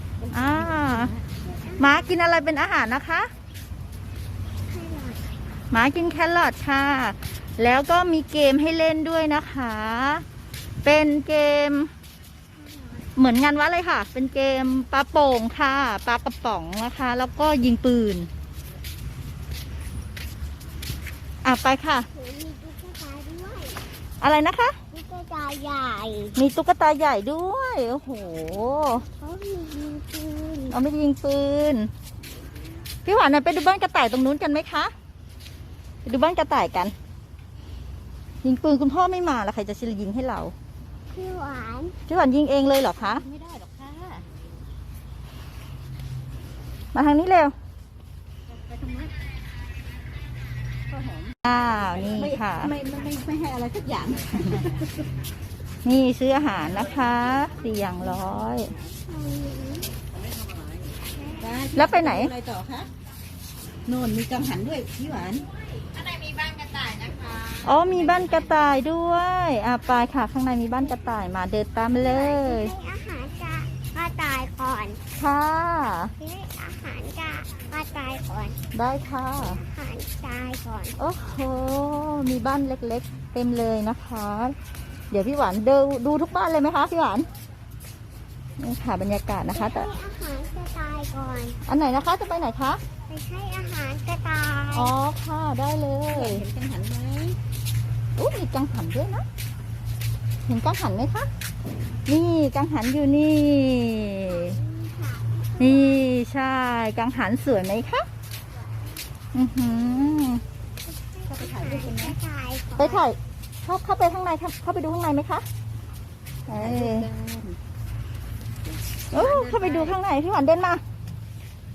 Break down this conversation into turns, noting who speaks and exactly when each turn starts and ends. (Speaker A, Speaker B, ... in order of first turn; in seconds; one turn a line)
Speaker A: 0.2-1.3
Speaker B: 0.3-1.1
Speaker C: 1.4-2.1
Speaker B: 1.8-3.3
Speaker C: 4.7-5.3
Speaker B: 5.7-10.2
Speaker B: 10.8-11.9
Speaker C: 12.6-13.0
Speaker B: 13.2-18.3
Speaker B: 21.4-22.1
Speaker C: 22.1-23.8
Speaker B: 24.2-24.8
Speaker C: 24.9-26.4
Speaker B: 26.4-29.0
Speaker C: 29.2-30.8
Speaker B: 30.7-31.9
Speaker B: 33.0-34.9
Speaker B: 36.0-36.9
Speaker B: 38.4-40.5
Speaker C: 41.1-42.0
Speaker B: 42.1-43.2
Speaker A: 43.0-44.2
Speaker B: 46.9-47.5
Speaker A: 48.5-49.1
Speaker A: 50.9-51.4
Speaker B: 51.4-52.7
Speaker A: 52.2-54.9
Speaker B: 55.8-58.7
Speaker C: 59.1-59.9
Speaker A: 61.4-62.9
Speaker B: 61.8-62.3
Speaker A: 63.9-65.5
Speaker A: 66.1-68.3
Speaker B: 67.6-72.7
Speaker C: 71.9-75.0
Speaker B: 75.2-76.1
Speaker C: 76.2-78.6
Speaker B: 78.7-79.6
Speaker C: 79.5-81.0
Speaker B: 81.0-84.5
Speaker B: 85.1-87.3
Speaker B: 88.6-89.9
Speaker C: 89.5-91.6
Speaker B: 91.7-92.8
Speaker C: 93.1-94.9
Speaker B: 94.7-96.4
Speaker A: 96.1-97.4
Speaker B: 98.2-99.2
Speaker B: 100.5-101.3
Speaker B: 102.1-104.5
Speaker C: 104.3-105.9
Speaker B: 105.6-108.0
Speaker B: 109.3-110.4
Speaker C: 111.2-113.0
Speaker A: 111.3-112.2
Speaker B: 112.8-115.4
Speaker B: 116.5-117.1
Speaker A: 116.5-117.6
Speaker A: 119.1-120.0
Speaker B: 119.1-120.8